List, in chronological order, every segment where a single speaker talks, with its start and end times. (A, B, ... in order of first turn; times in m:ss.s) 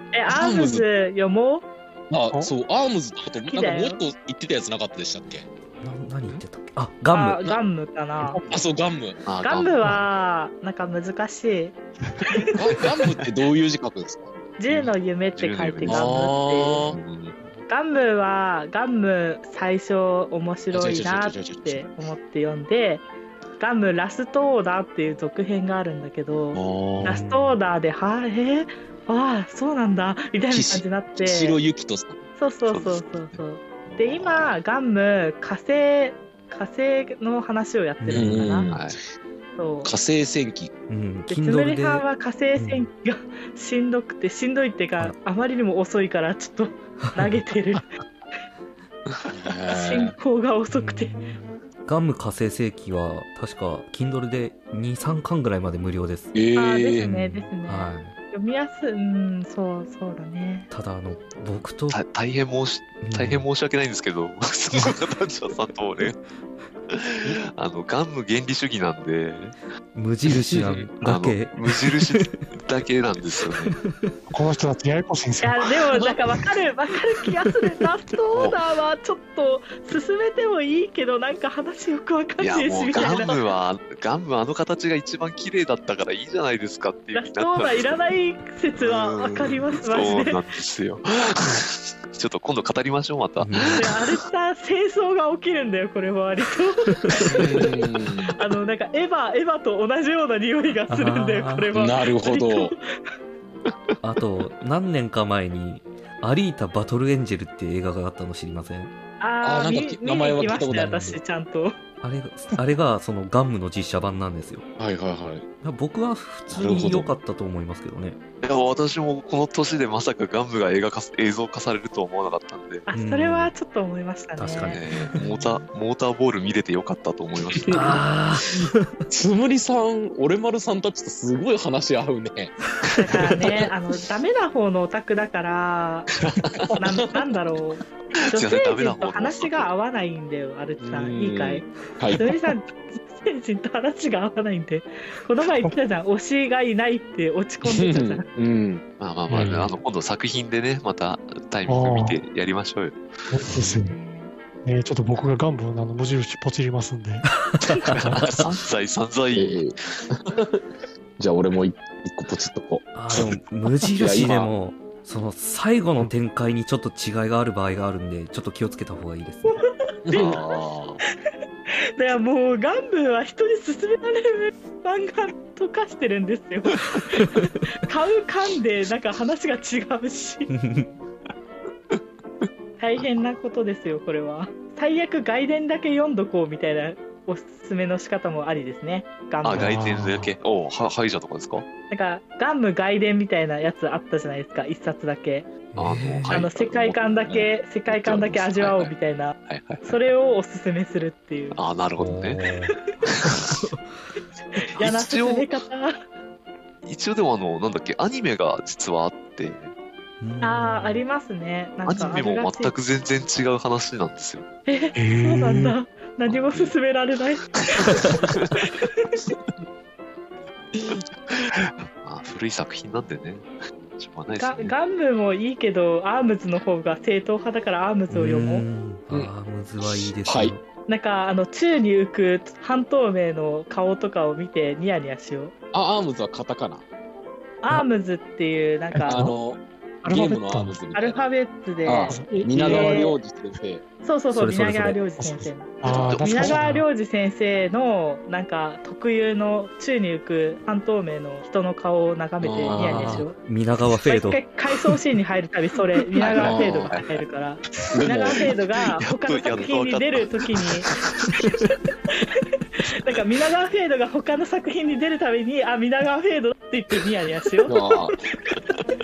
0:00.1-0:01.7 A
0:00.3-0:00.9 B
0:02.1-0:05.5 B
0:03.4-0:04.0 A
0:05.8-0:07.4 C
0:07.1-0:08.4 A
0:08.2-0:08.5 D
0:08.5-0:09.2 B
0:09.2-0:10.0 E
0:09.4-0:11.8 A
0:12.6-0:14.3 B
0:14.6-0:16.9 A
0:15.4-0:16.1 E
0:15.8-0:17.0 B
0:16.9-0:17.4 E
0:17.7-0:23.0 A
0:20.7-0:21.9 B
0:23.6-0:31.6 A
0:26.5-0:27.2 B
0:30.5-0:32.2 B
0:32.4-0:38.7 A
0:32.6-0:34.6 E
0:38.0-0:38.7 C
0:38.1-0:39.0 B
0:38.7-0:39.0 E
0:39.6-0:39.9 A
0:39.8-0:40.7 B
0:40.9-0:42.1 C
0:41.3-0:47.9 A
0:42.6-0:42.9 C
0:49.3-0:50.2 B
0:49.7-0:51.1 A
0:50.7-0:56.4 C
0:56.3-0:57.1 B
0:56.6-1:00.7 A
0:57.0-0:58.1 C
1:00.7-1:02.0 C
1:01.9-1:06.2 E
1:03.0-1:03.4 C
1:06.9-1:09.6 E
1:09.9-1:12.4 C
1:10.3-1:13.8 E
1:13.4-1:14.2 C
1:14.3-1:15.6 D
1:15.4-1:23.4 A
1:22.4-1:28.1 E
1:27.2-1:30.4 A
1:28.8-1:33.9 E
1:33.4-1:33.9 C
1:33.8-1:42.8 A
1:37.3-1:38.3 B
1:40.9-1:41.7 C
1:41.7-1:42.7 B
1:43.7-1:43.9 E
1:44.0-1:48.9 C
1:49.2-1:51.8 A
1:49.4-1:51.2 B
1:50.5-1:51.2 C
1:52.0-1:54.6 C
1:54.8-1:55.4 B
1:55.6-1:58.2 C
1:56.5-1:57.2 B
1:58.4-2:02.9 E
2:02.9-2:05.6 A
2:02.9-2:03.5 C
2:04.4-2:05.3 C
2:04.5-2:08.0 E
2:07.5-2:08.0 B
2:07.7-2:08.9 C
2:08.6-2:13.7 B
2:13.1-2:16.1 A
2:16.3-2:17.1 B
2:16.8-2:28.3 A
2:18.4-2:19.7 E
2:20.8-2:22.3 B
2:27.6-2:28.8 B
2:29.0-2:33.0 E
2:29.3-2:29.8 D
2:31.7-2:32.2 D
2:33.3-2:34.0 D
2:33.5-2:33.8 C
2:33.7-2:34.3 A
2:34.6-2:37.3 D
2:37.5-2:37.9 C
2:37.7-2:38.6 B
2:37.9-2:38.3 D
2:38.2-2:39.6 E
2:39.3-2:40.6 B
2:41.2-2:43.4 B
2:42.9-2:49.6 C
2:44.0-2:44.5 B
2:50.1-2:51.0 B
2:50.1-2:50.4 A
2:52.0-3:00.5 A
3:00.5-3:00.9 C
3:02.8-3:09.8 A
3:03.0-3:03.2 E
3:09.4-3:11.6 E
3:09.5-3:10.3 D
3:11.9-3:15.5 A
3:15.8-3:16.4 C
3:15.8-3:18.9 E
3:16.3-3:21.6 A
3:19.5-3:20.0 E
3:21.6-3:22.4 E
3:22.0-3:22.9 C
3:23.0-3:23.6 E
3:23.5-3:23.9 C
3:24.6-3:26.0 A
3:24.8-3:25.6 E
3:26.8-3:29.7 E
3:30.2-3:31.0 C
3:30.4-3:32.7 A
3:31.9-3:34.4 E
3:34.7-3:39.0 A
3:35.0-3:35.8 D
3:36.2-3:36.8 E
3:38.3-3:38.6 E
3:42.0-3:44.7 E
3:44.4-3:48.7 A
3:48.1-3:50.6 C
3:49.8-3:50.6 B
3:50.9-3:55.5 A
3:55.7-3:56.8 B
3:57.6-3:59.3 A
3:59.1-4:01.2 B
4:00.0-4:00.8 D
4:01.0-4:03.2 A
4:01.8-4:03.8 B
4:02.1-4:03.1 D
4:04.0-4:13.4 A
4:04.3-4:05.0 C
4:05.2-4:06.8 D
4:05.9-4:06.6 B
4:12.4-4:13.2 B
4:12.7-4:14.4 C
4:14.0-4:20.9 A
4:16.2-4:17.0 B
4:16.2-4:17.1 E
4:17.9-4:18.5 B
4:19.0-4:21.4 E
4:22.8-4:28.6 A
4:27.7-4:28.2 B